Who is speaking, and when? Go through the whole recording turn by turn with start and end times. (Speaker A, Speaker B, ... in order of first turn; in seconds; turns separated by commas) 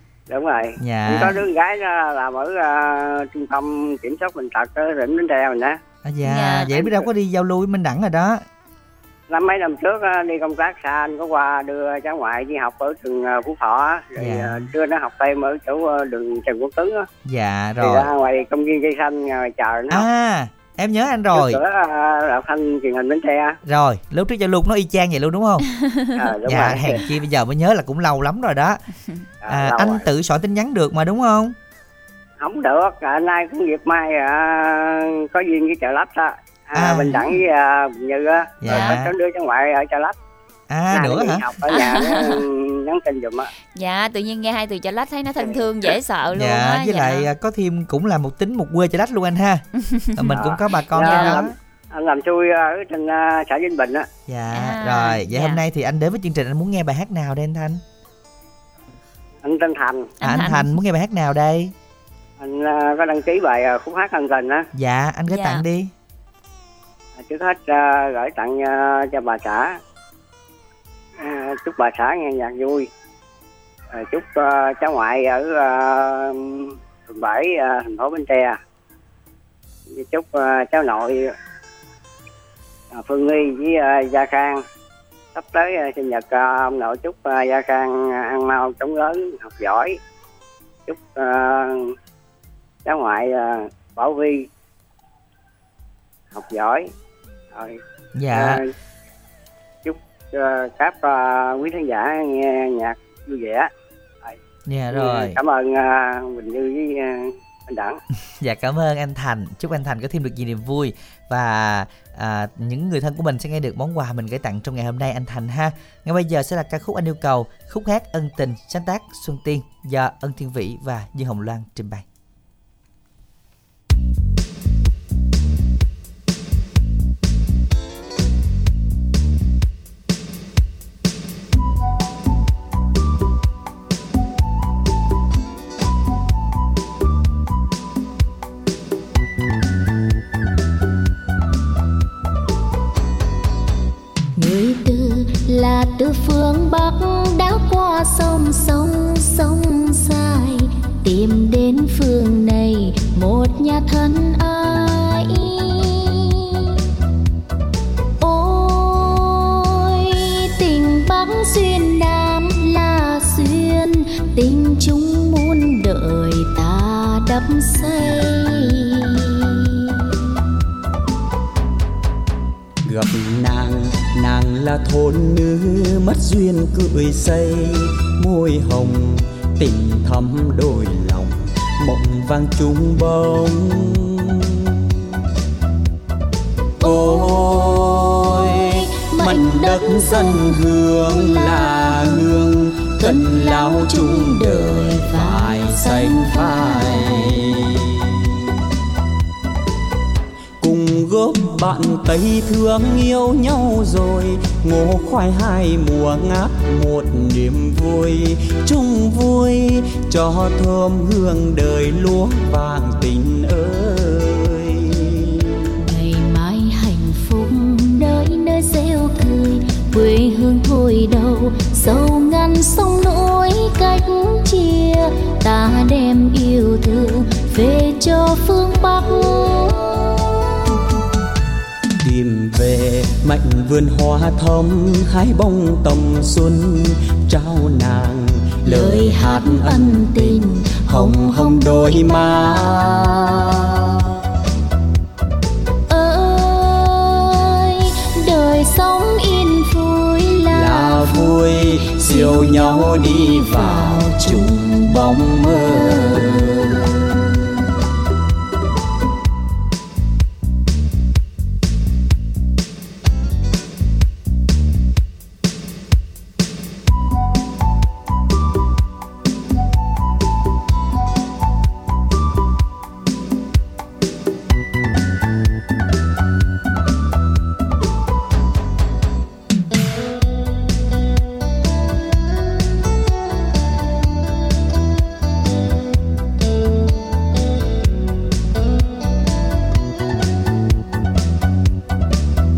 Speaker A: 0.3-5.8, Speaker B: 0.8-1.4, Speaker B: 6.0-8.4, Speaker C: 6.2-6.8, Speaker A: 9.3-17.1, Speaker B: 14.2-14.7, Speaker B: 17.2-18.1, Speaker A: 17.8-20.0, Speaker B: 19.9-21.6, Speaker A: 21.3-23.6, Speaker B: 23.6-25.7, Speaker C: 25.8-26.2, Speaker A: 26.2-27.0, Speaker B: 26.4-28.8, Speaker A: 29.4-30.1, Speaker B: 29.5-31.5, Speaker A: 32.4-40.1, Speaker B: 36.7-37.3, Speaker B: 38.6-39.1, Speaker B: 40.7-41.4, Speaker A: 40.9-43.5, Speaker C: 41.7-42.4, Speaker C: 43.7-47.3, Speaker A: 45.4-45.9, Speaker B: 46.3-49.6, Speaker C: 49.8-50.4, Speaker B: 50.1-51.5, Speaker A: 50.3-54.1, Speaker C: 51.0-51.4, Speaker B: 54.3-57.8, Speaker C: 54.5-55.6, Speaker A: 59.4-60.1, Speaker C: 60.2-60.7, Speaker B: 60.2-61.7, Speaker A: 62.4-64.7, Speaker B: 64.7-65.9, Speaker C: 65.3-65.6, Speaker A: 67.2-69.8, Speaker A: 71.2-72.9, Speaker A: 73.9-78.6, Speaker A: 79.9-81.3, Speaker A: 82.9-84.6, Speaker A: 85.3-90.0, Speaker A: 90.9-91.9, Speaker A: 92.8-94.5, Speaker A: 96.3-96.9, Speaker A: 97.5-97.8, Speaker B: 98.2-98.6, Speaker A: 98.3-98.6, Speaker A: 99.8-103.7, Speaker B: 104.7-105.4, Speaker A: 104.9-108.0, Speaker B: 108.4-122.0, Speaker D: 144.3-156.8, Speaker D: 158.2-169.7, Speaker E: 172.8-184.9, Speaker D: 186.8-192.3, Speaker E: 186.8-198.2, Speaker D: 192.9-197.5, Speaker E: 200.6-215.5, Speaker D: 215.8-230.1, Speaker E: 232.0-243.1, Speaker D: 238.6-243.4, Speaker D: 245.9-256.2, Speaker E: 250.5-256.8